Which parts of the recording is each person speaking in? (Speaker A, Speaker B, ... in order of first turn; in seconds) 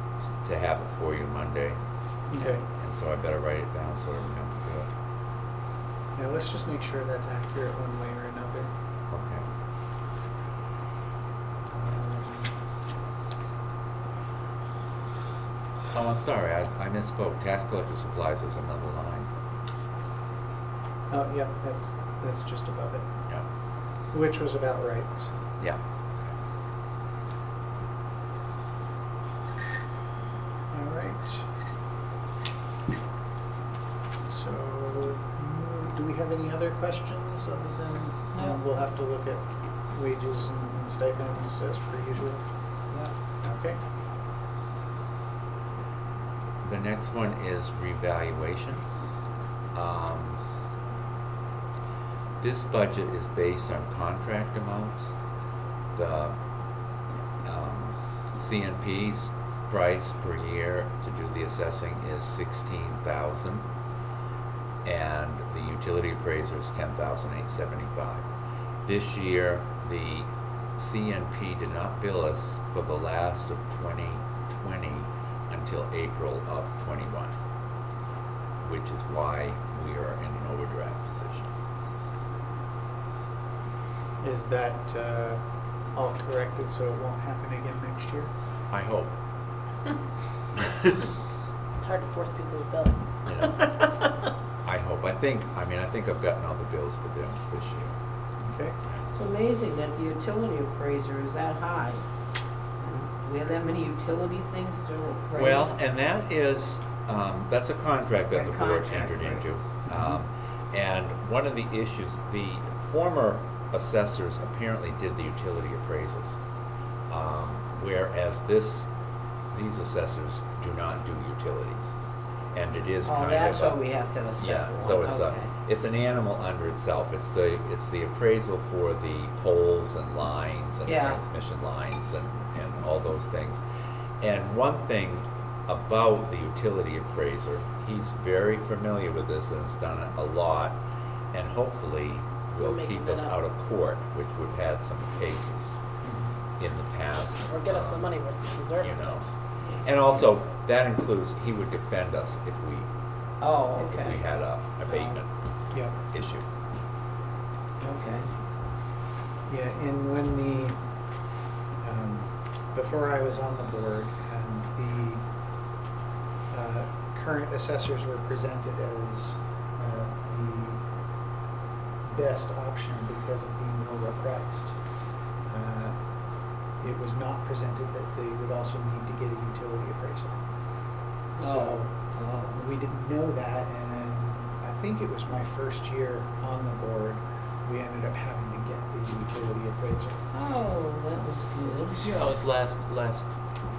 Speaker A: 0.4-1.8, 2.3-4.9, 9.1-9.5, 15.9-19.3, 25.6-26.3, 46.6-48.8, 49.7-50.4, 52.4-55.1, 56.0-56.4, 57.4-63.7, 64.8-68.2, 68.9-77.3, 78.6-81.5, 88.7-89.1, 93.3-93.7, 94.6-98.0, 105.3-116.4, 117.1-118.9, 119.5-122.0, 122.5-123.8, 124.4-133.6, 134.2-140.8, 141.3-145.8, 146.6-148.1, 148.8-149.2, 149.8-152.9, 153.8-155.3, 156.0-156.4, 192.0-193.3
Speaker B: 2.3-2.6, 6.2-8.7, 11.7-12.5, 21.1-23.1, 24.1-25.3, 30.7-31.4, 34.3-42.4, 43.4-43.8, 84.2-85.4, 85.9-88.3, 98.4-98.8, 155.7-156.0, 159.5-160.8, 161.8-165.2, 166.5-170.8, 172.1-174.7, 175.4-175.9, 176.8-180.4, 181.4-182.0, 182.5-190.2
Speaker C: 91.8-94.1, 142.6-143.3, 147.5-149.2
Speaker D: 99.1-102.0, 102.8-105.7, 108.3-109.4, 123.0-125.5, 130.8-131.2, 153.4-154.2, 154.9-155.1, 157.8-158.3, 181.4-182.6, 190.3-192.1